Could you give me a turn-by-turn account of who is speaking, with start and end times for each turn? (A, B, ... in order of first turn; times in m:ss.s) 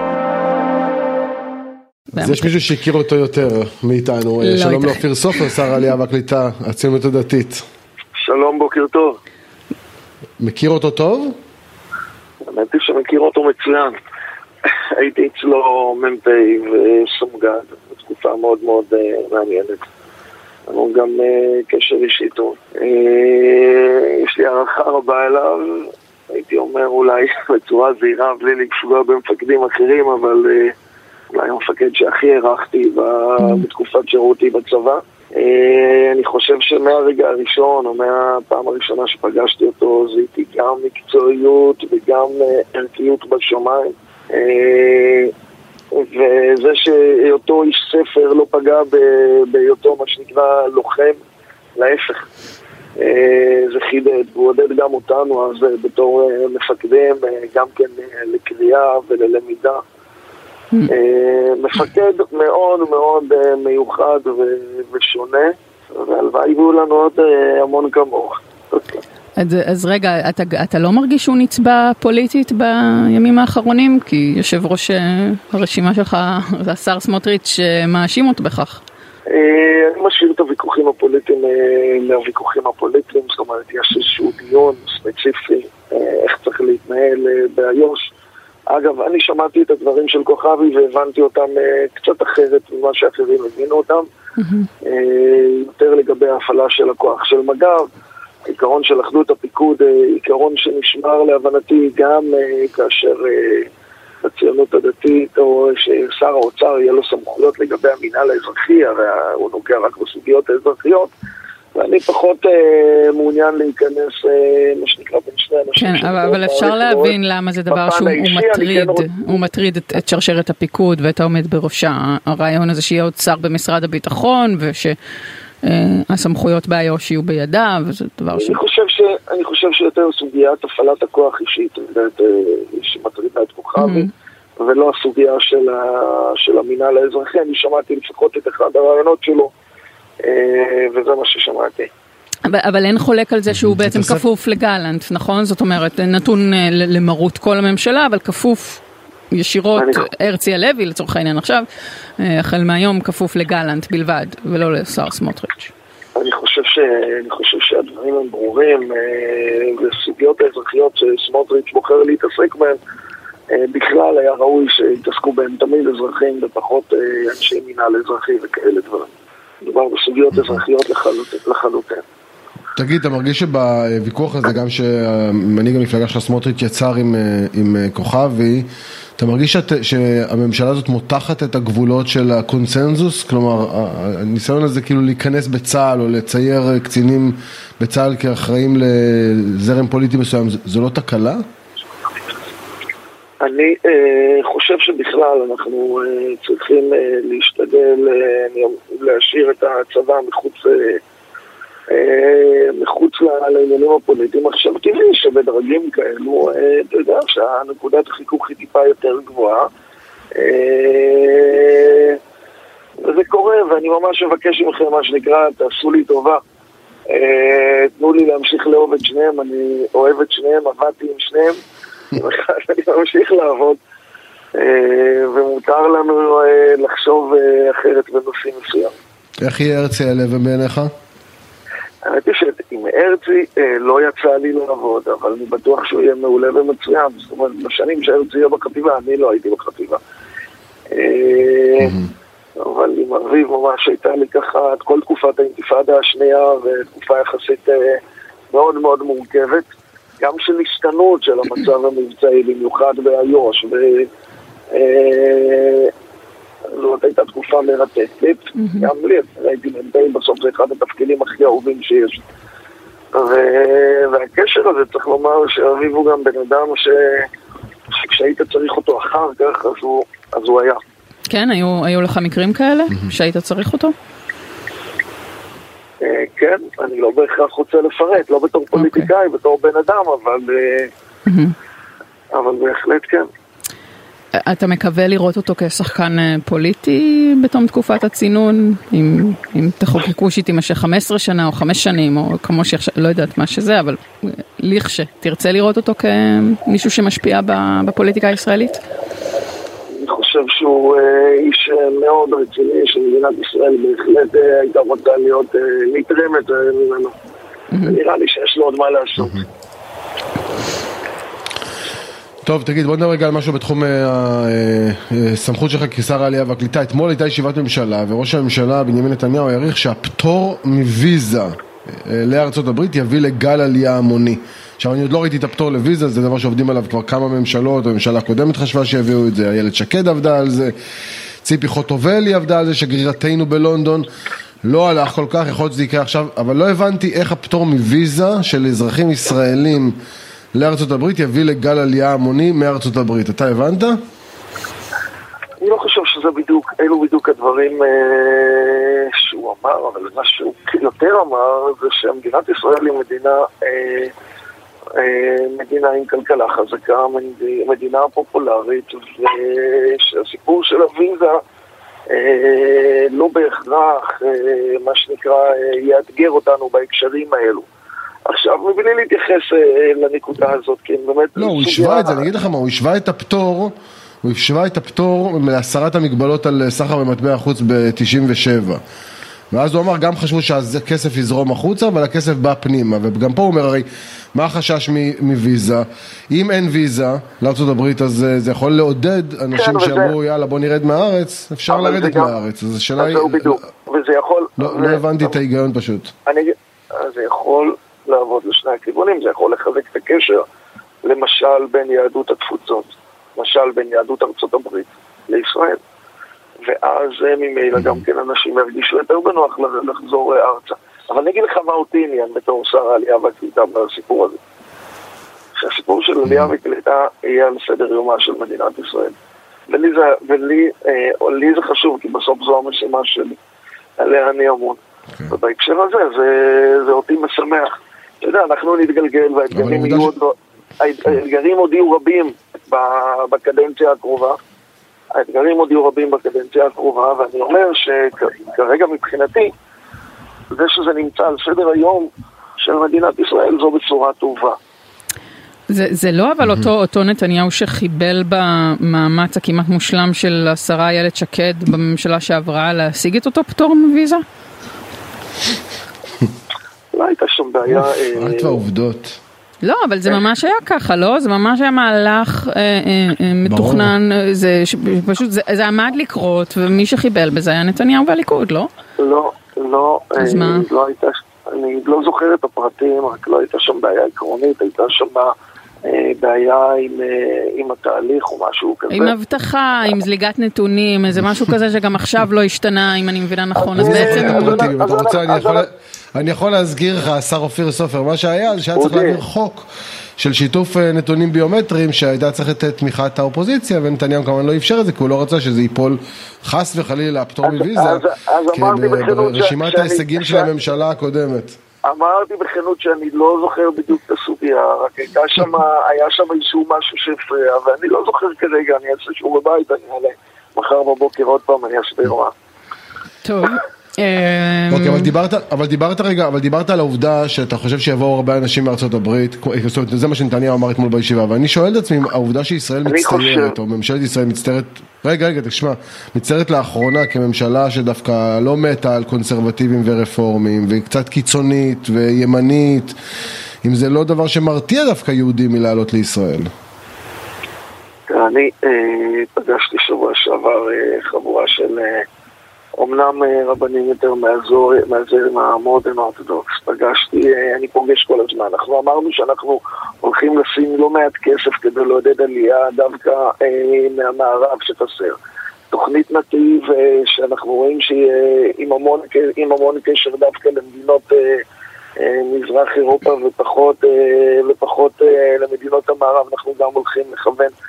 0:02.1-0:02.5 A
0:02.2-0:07.6 B
0:04.4-0:05.6 A
0:08.2-0:09.2 C
0:10.4-0:11.3 B
0:12.4-0:13.9 C
0:14.9-0:19.8 C
0:20.7-0:30.7 C
0:31.3-0:45.3 C
0:33.4-0:33.6 A
0:45.9-0:51.2 C
0:51.8-0:52.3 C
0:53.0-0:59.8 C
1:00.9-1:09.0 C
1:09.4-1:18.8 A
1:19.3-1:28.1 C
1:28.7-1:34.0 C
1:34.4-1:34.7 A
1:34.8-1:37.8 C
1:38.5-1:43.7 C
1:44.2-1:51.1 C
1:51.7-1:57.2 C
1:55.8-2:05.0 A
1:57.7-1:59.4 C
2:05.6-2:08.6 A
2:08.3-2:19.5 C
2:13.8-2:14.1 A
2:20.2-2:21.9 C
2:22.4-2:31.6 A
2:23.5-2:24.2 B
2:29.8-2:30.1 C
2:32.2-2:35.7 A
2:36.2-2:42.8 C
2:43.5-2:49.1 C
2:49.6-2:52.0 C
2:52.8-2:58.6 B
2:59.2-3:11.4 B
3:13.4-3:21.0 C
3:21.9-3:29.7 C
3:30.3-3:32.2 C
3:33.0-3:36.4 C
3:37.1-3:41.6 C
3:42.1-3:43.8 C
3:44.5-3:48.9 C
3:49.4-3:50.9 B
3:52.0-4:00.0 C
4:00.9-4:02.0 C
4:02.6-4:08.0 C
4:08.5-4:09.6 C
4:10.2-4:14.1 C
4:14.7-4:15.9 C
4:16.7-4:22.2 C
4:18.6-4:18.9 A
4:23.1-4:27.3 C
4:27.9-4:30.8 C
4:31.3-4:33.9 A
4:36.0-4:40.9 C
4:38.7-4:39.1 A
4:41.2-4:41.5 A
4:42.3-4:43.3 C
4:44.4-4:58.8 A
5:00.0-5:07.1 C
5:07.8-5:09.4 C
5:09.2-5:09.4 B
5:12.4-5:30.7 B
5:31.4-5:34.1 B
5:34.6-5:39.9 B
5:40.5-5:44.0 B
5:45.6-5:54.1 C
5:55.0-6:01.4 C
6:02.1-6:07.6 C
6:08.2-6:12.2 C
6:11.4-6:18.8 B
6:19.5-6:33.6 B
6:29.5-6:30.2 C
6:31.7-6:32.4 C
6:33.0-6:35.4 C
6:34.6-6:36.1 B
6:36.2-6:40.4 C
6:41.0-6:45.8 C
6:46.6-6:54.4 C
6:55.6-6:59.1 C
6:56.2-6:56.5 B
6:59.7-7:03.4 C
7:04.0-7:14.4 C
7:09.5-7:10.1 B
7:15.1-7:19.5 C
7:20.5-7:24.6 C
7:25.7-7:34.2 A
7:36.9-7:38.6 C
7:37.7-7:39.2 B
7:39.6-7:48.7 A
7:43.4-7:43.9 B
7:49.0-7:55.3 C
7:50.2-7:50.7 A
7:55.8-7:59.1 C
7:58.9-8:04.7 A
8:03.6-8:05.7 C
8:03.8-8:09.6 B
8:08.7-8:09.2 C
8:10.2-8:21.6 B
8:17.4-8:20.5 C
8:21.8-8:32.3 C
8:33.2-8:35.1 A
8:34.7-8:53.0 B
8:42.8-8:43.6 C
8:53.6-8:56.5 B
8:58.1-9:02.0 C
9:02.8-9:15.2 C
9:15.7-9:21.4 C
9:22.0-9:27.5 C